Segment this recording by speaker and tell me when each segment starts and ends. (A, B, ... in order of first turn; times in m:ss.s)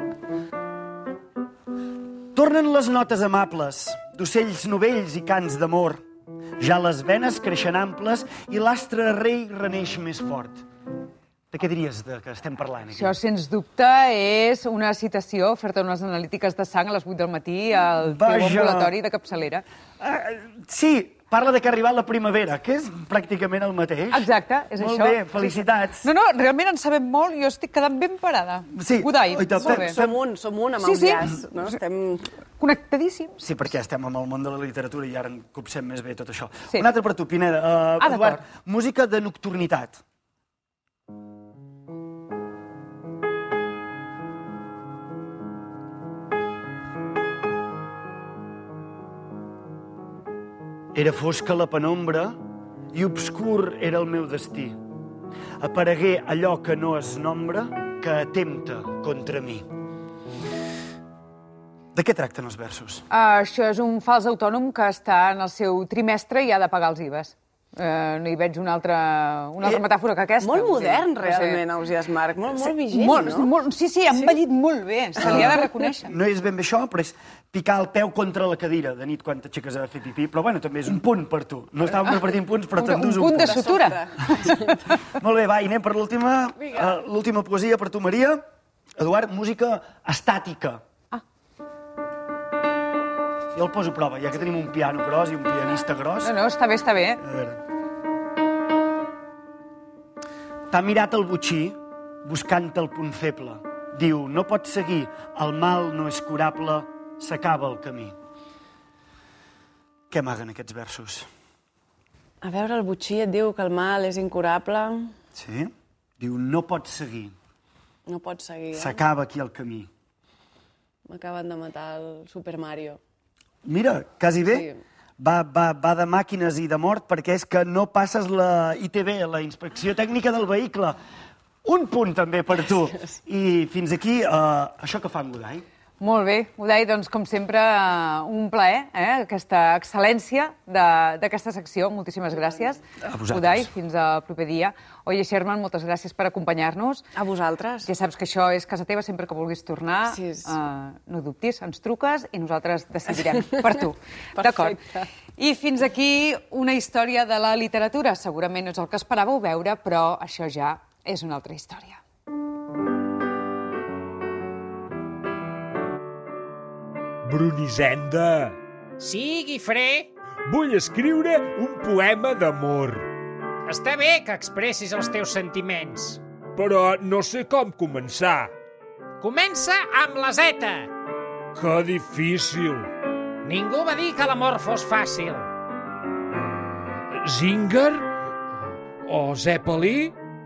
0:02.3-0:06.0 A
0:06.6-0:10.6 A
0:11.5-0:13.2 A
0:12.9-0:19.6 B
0:18.0-0:18.9 A
0:20.0-0:24.2 A
0:24.1-0:30.0 B
0:24.8-0:26.1 A
0:28.7-0:30.2 A
0:29.6-0:32.3 C
0:30.8-0:31.3 B
0:32.6-0:33.4 B
0:33.4-0:40.0 A
0:38.0-0:38.4 B
0:50.9-0:52.4 A
0:52.9-0:54.8 A
0:55.6-0:59.7 A
1:01.9-1:03.0 A
1:03.1-1:11.6 B
1:10.4-1:13.5 C
1:12.6-1:16.1 B
1:15.2-1:23.6 A
1:22.8-1:24.9 B
1:23.3-1:24.3 C
1:25.1-1:28.4 A
1:29.0-1:30.8 A
1:33.5-1:36.3 A
1:36.2-1:37.2 B
1:37.2-1:37.6 A
1:40.7-1:48.1 A
1:50.1-1:51.3 A
1:52.4-1:55.1 C
1:55.3-1:57.3 A
1:58.1-1:59.0 C
1:58.7-1:59.9 A
2:01.1-2:03.0 C
2:03.6-2:11.0 A
2:04.4-2:04.8 C
2:11.6-2:15.6 A
2:16.0-2:27.0 B
2:23.0-2:23.7 A
2:27.1-2:27.9 C
2:27.8-2:34.8 B
2:30.0-2:30.5 C
2:33.3-2:33.8 C
2:34.4-2:35.1 C
2:35.4-2:42.0 B
2:47.2-2:48.6 D
2:49.0-2:50.1 E
2:50.5-2:53.1 D
2:52.0-2:52.4 E
2:53.6-2:56.2 E
2:56.6-2:58.5 D
2:59.2-3:00.9 E
3:01.5-3:02.9 D
3:02.5-3:02.8 E
3:03.4-3:05.5 E
3:06.9-3:08.1 D
3:09.1-3:10.1 D
3:09.1-3:10.0 E